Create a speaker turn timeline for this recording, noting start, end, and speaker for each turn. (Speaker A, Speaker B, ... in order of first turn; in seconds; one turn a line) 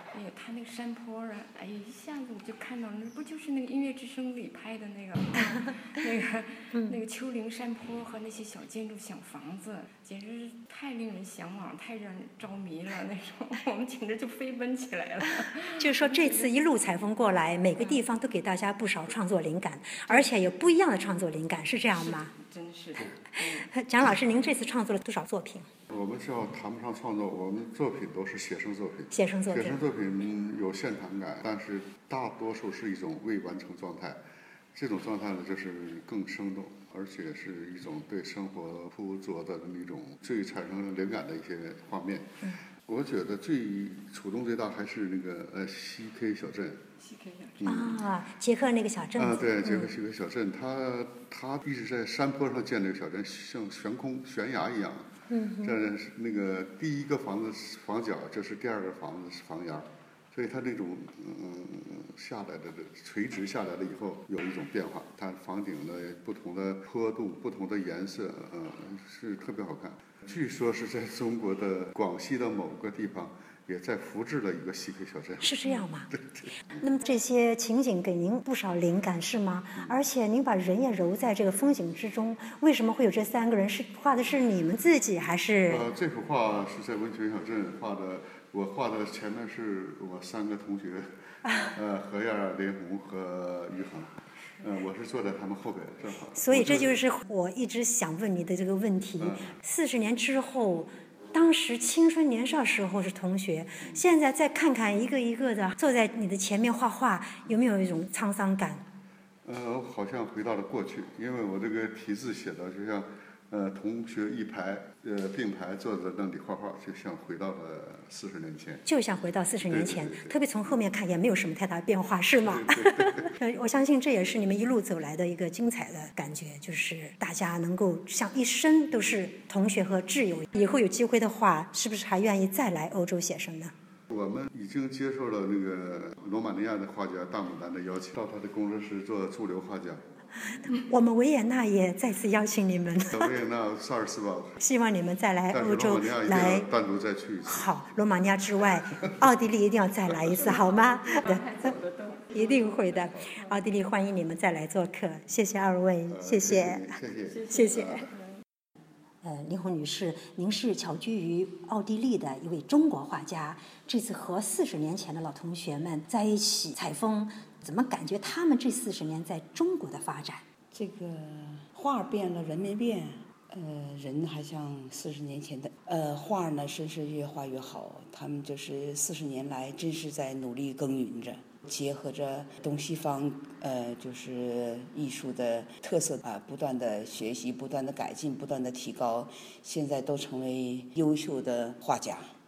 Speaker A: 0.1-16.5
Speaker B: 15.8-22.3
Speaker A: 17.8-18.0
Speaker A: 21.9-23.7
Speaker B: 23.4-25.7
Speaker C: 25.9-34.2
Speaker B: 29.1-29.8
Speaker C: 34.7-46.8
Speaker A: 47.0-47.8
Speaker C: 47.6-48.0
Speaker B: 47.6-49.9
Speaker C: 49.1-55.1
Speaker B: 55.3-55.8
Speaker C: 55.6-75.6
Speaker B: 75.4-76.1
Speaker C: 76.1-76.5
Speaker B: 76.8-85.9
Speaker C: 85.7-91.1
Speaker C: 91.6-96.9
Speaker B: 96.3-108.8
Speaker C: 99.2-99.5
Speaker C: 109.4-118.8
Speaker B: 118.8-133.7
Speaker C: 119.6-120.4
Speaker C: 122.4-123.3
Speaker C: 134.1-140.0
Speaker B: 140.5-143.4
Speaker C: 143.1-144.6
Speaker B: 144.6-146.7
Speaker C: 145.5-147.7
Speaker B: 147.4-151.8
Speaker A: 150.6-153.3
Speaker B: 152.3-158.1
Speaker C: 156.1-157.9
Speaker A: 157.3-158.2
Speaker B: 159.2-170.4
Speaker D: 170.7-192.3